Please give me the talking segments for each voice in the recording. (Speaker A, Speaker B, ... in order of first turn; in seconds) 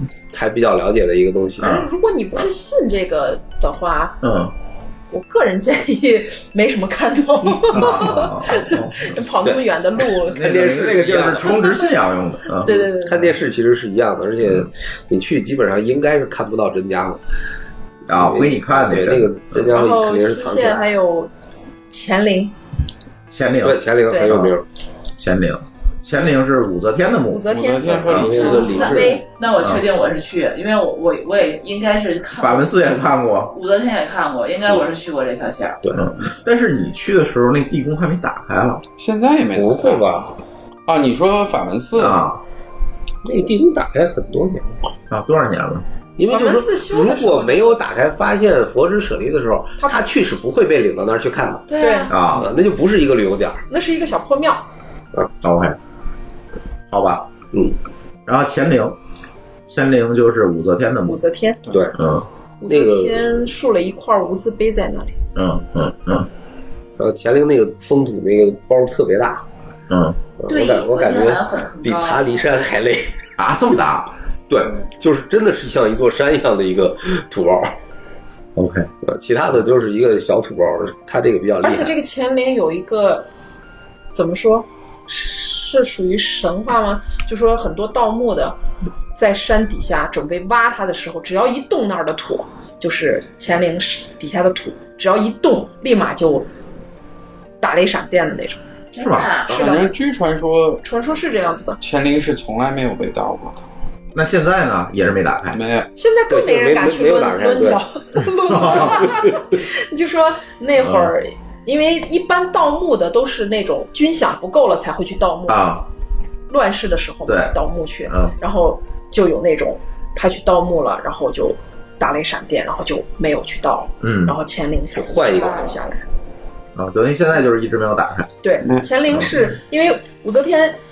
Speaker A: 0.3-1.8, 10.3-11.5, 12.7-17.2, 18.1-20.9, 23.6-24.6, 28.1-29.2, 39.5-40.4, 43.2-44.9, 46.2-51.6, 52.3-53.6, 61.7-62.0, 62.7-63.2, 67.0-69.4, 70.4-73.2, 74.5-77.7, 79.0-81.9, 106.3-107.8, 108.7-109.2, 124.9-125.8
Speaker B: 1.6-1.8, 4.2-4.5, 7.6-9.2, 10.2-12.8, 14.4-14.7, 18.1-19.7, 23.3-24.5, 25.2-27.4, 29.6-29.8, 32.3-33.5, 35.9-38.8, 41.9-42.4, 45.1-45.8, 52.1-52.5, 55.4-55.8, 56.9-57.2, 58.3-59.0, 59.7-61.2, 62.0-62.3, 65.3-66.3, 69.9-70.2, 73.4-74.1, 78.5-78.9, 98.9-99.5, 104.1-105.6, 108.5-109.0, 110.8-111.1, 115.5-115.9, 117.3-117.6, 118.1-118.3, 124.0-124.3, 126.7-128.3
Speaker C: 1.6-4.2, 5.1-10.7, 12.6-13.1, 19.7-21.3, 21.9-22.5, 24.1-24.4, 27.3-29.2, 46.3-47.8, 49.8-50.1, 51.8-52.1, 53.7-54.6, 61.0-61.6, 62.6-65.2, 81.6-83.3, 84.1-88.5, 89.1-96.5, 97.6-98.6, 99.5-99.9, 100.8-101.8, 106.0-115.6, 116.5-126.0, 128.4-130.8
Speaker D: 27.5-29.2, 39.0-40.1, 40.9-42.2, 99.5-100.8, 101.8-103.6, 105.5-105.9, 128.6-128.9
Speaker E: 28.4-32.7, 33.5-35.8, 51.7-52.1, 70.5-72.5, 98.9-99.5